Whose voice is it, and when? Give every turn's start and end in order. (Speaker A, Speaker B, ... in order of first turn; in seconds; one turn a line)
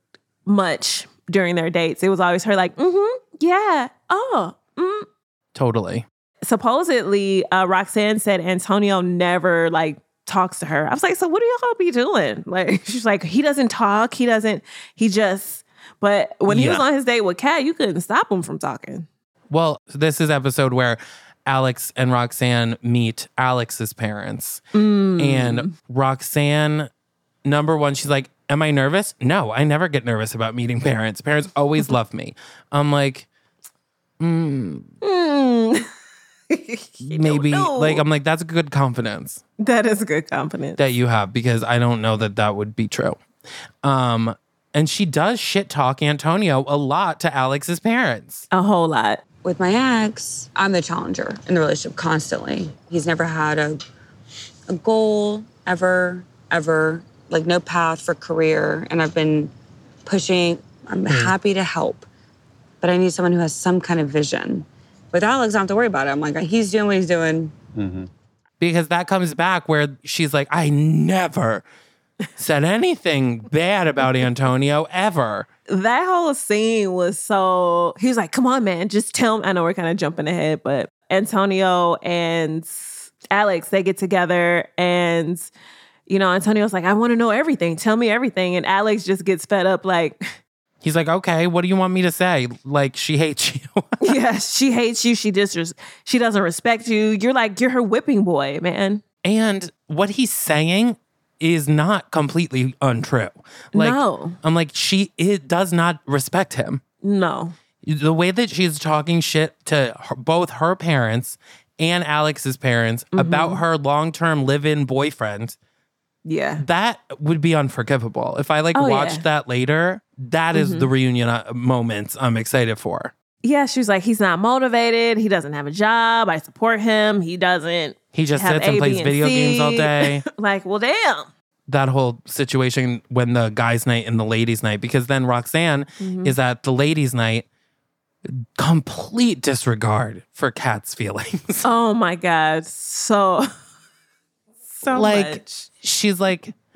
Speaker A: 0.5-5.0
Speaker B: 5.5-6.0
Speaker A: 6.4-19.1
Speaker B: 16.5-16.8
Speaker B: 19.5-24.6
Speaker A: 24.7-25.7
Speaker B: 25.2-26.9
Speaker B: 27.4-33.3
Speaker B: 34.2-34.9
Speaker A: 35.0-35.9
Speaker A: 36.5-38.0
Speaker B: 37.0-39.4
Speaker A: 39.6-40.8
Speaker B: 40.8-43.2
Speaker B: 43.8-48.5
Speaker A: 48.5-49.2
Speaker C: 49.4-53.8
Speaker C: 54.7-59.5
Speaker C: 60.0-62.1
Speaker C: 62.8-67.6
Speaker B: 68.6-71.6
Speaker B: 72.4-75.5
Speaker A: 75.7-85.5
Speaker A: 86.1-90.4
Speaker B: 90.8-94.2
Speaker A: 94.0-99.0
Speaker B: 99.2-106.8
Speaker A: 103.7-104.4
Speaker A: 107.0-107.5
Speaker B: 107.8-115.6
Speaker A: 113.1-113.6
Speaker A: 116.2-116.6
Speaker B: 116.6-123.1
Speaker A: 118.7-119.2
Speaker A: 120.5-120.9
Speaker A: 123.4-131.3
Speaker B: 128.1-130.2
Speaker B: 131.7-137.4
Speaker A: 136.0-136.3
Speaker B: 138.2-141.7
Speaker A: 141.6-143.5
Speaker A: 144.7-145.7
Speaker B: 144.9-146.5